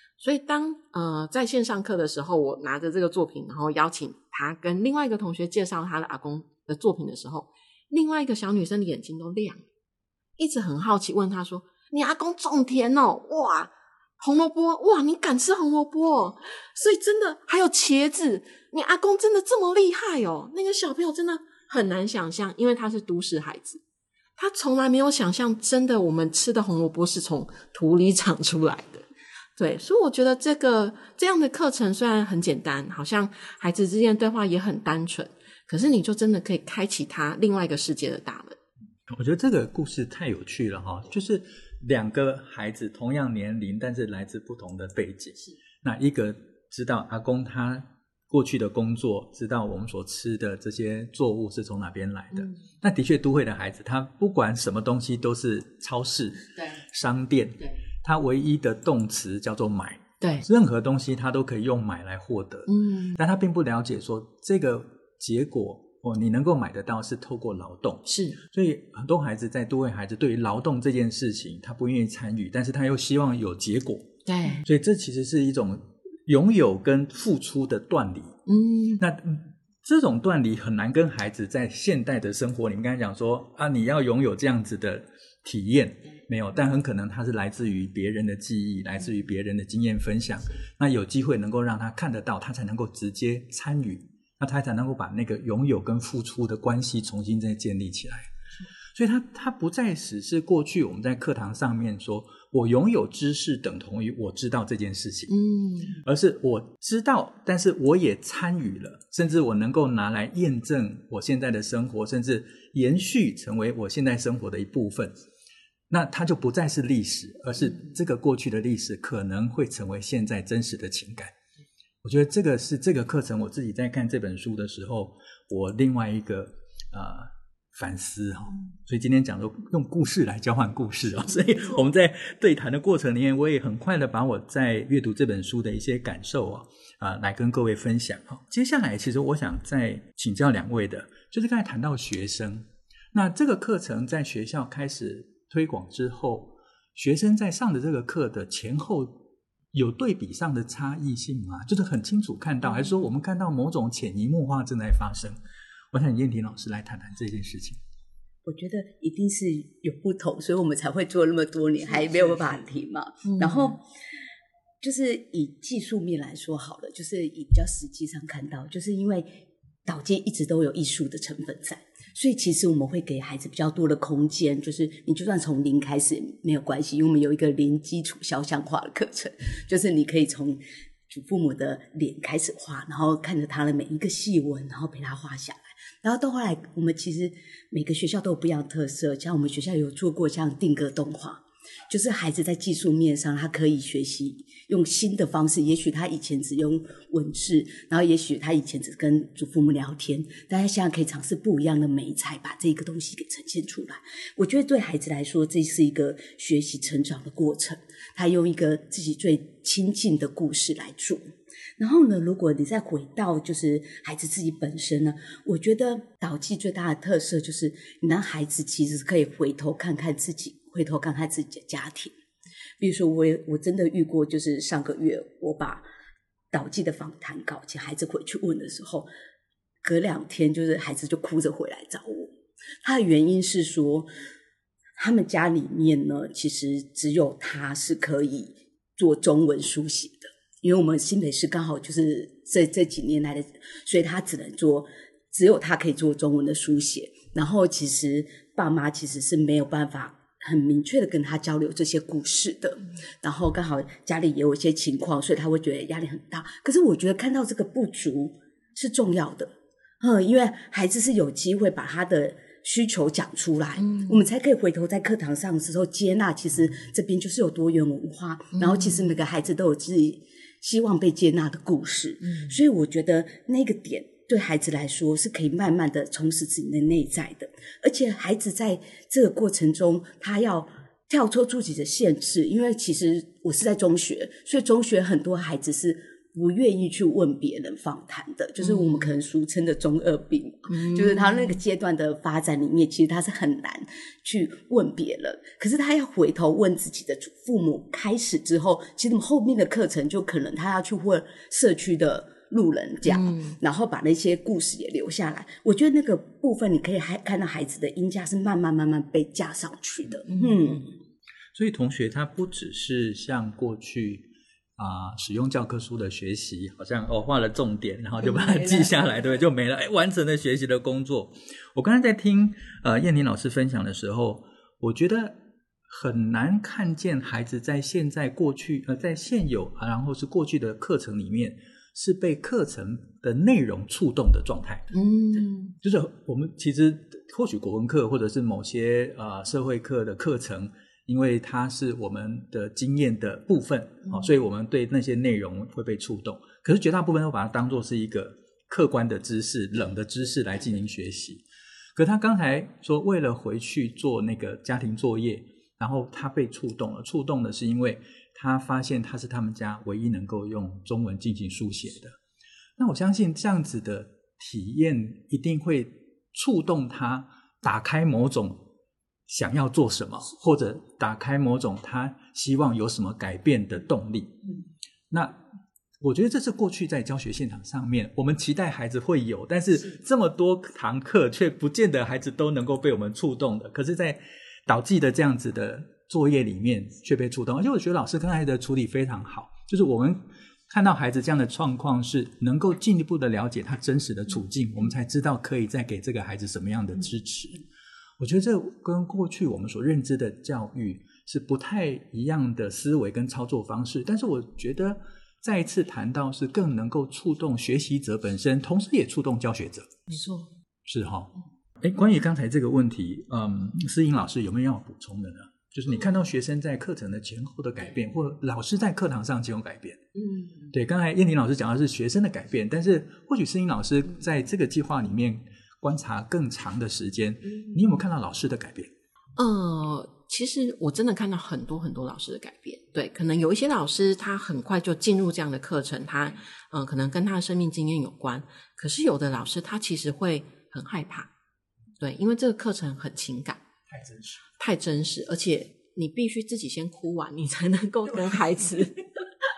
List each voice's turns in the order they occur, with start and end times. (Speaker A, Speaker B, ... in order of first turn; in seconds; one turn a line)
Speaker A: 0.2-9.6
Speaker A: 10.4-23.8
Speaker A: 24.4-29.1
Speaker A: 29.6-38.6
Speaker B: 39.1-74.1
Speaker A: 62.7-63.2
Speaker A: 68.1-68.4
Speaker A: 74.2-74.6
Speaker B: 74.6-78.4
Speaker A: 78.5-79.0
Speaker B: 79.0-98.3
Speaker B: 98.9-105.3
Speaker A: 105.3-106.0
Speaker B: 106.0-115.2
Speaker B: 115.9-121.3
Speaker B: 122.0-155.4
Speaker B: 155.9-157.8
Speaker C: 158.4-163.8
Speaker A: 163.3-163.6
Speaker C: 164.8-169.3
Speaker C: 169.8-211.2
Speaker C: 211.8-222.2
Speaker C: 222.8-225.8
Speaker C: 226.5-229.1
Speaker C: 229.8-232.3
Speaker C: 232.8-234.1
Speaker C: 235.0-310.9
Speaker A: 263.8-264.1
Speaker A: 268.6-269.0
Speaker A: 288.6-289.1
Speaker A: 290.7-291.6
Speaker A: 303.1-303.6
Speaker A: 310.3-310.6
Speaker B: 311.5-334.9
Speaker C: 318.3-318.9
Speaker A: 334.9-335.7
Speaker B: 335.8-351.4
Speaker B: 351.9-362.1
Speaker B: 362.8-368.6
Speaker B: 369.3-374.4
Speaker B: 375.1-375.4
Speaker B: 376.0-397.6
Speaker B: 398.2-410.1
Speaker A: 410.1-410.5
Speaker B: 410.9-420.0
Speaker A: 420.3-420.7
Speaker B: 420.7-428.9
Speaker A: 429.4-441.3
Speaker A: 442.0-443.6
Speaker B: 443.9-444.4
Speaker A: 444.6-449.0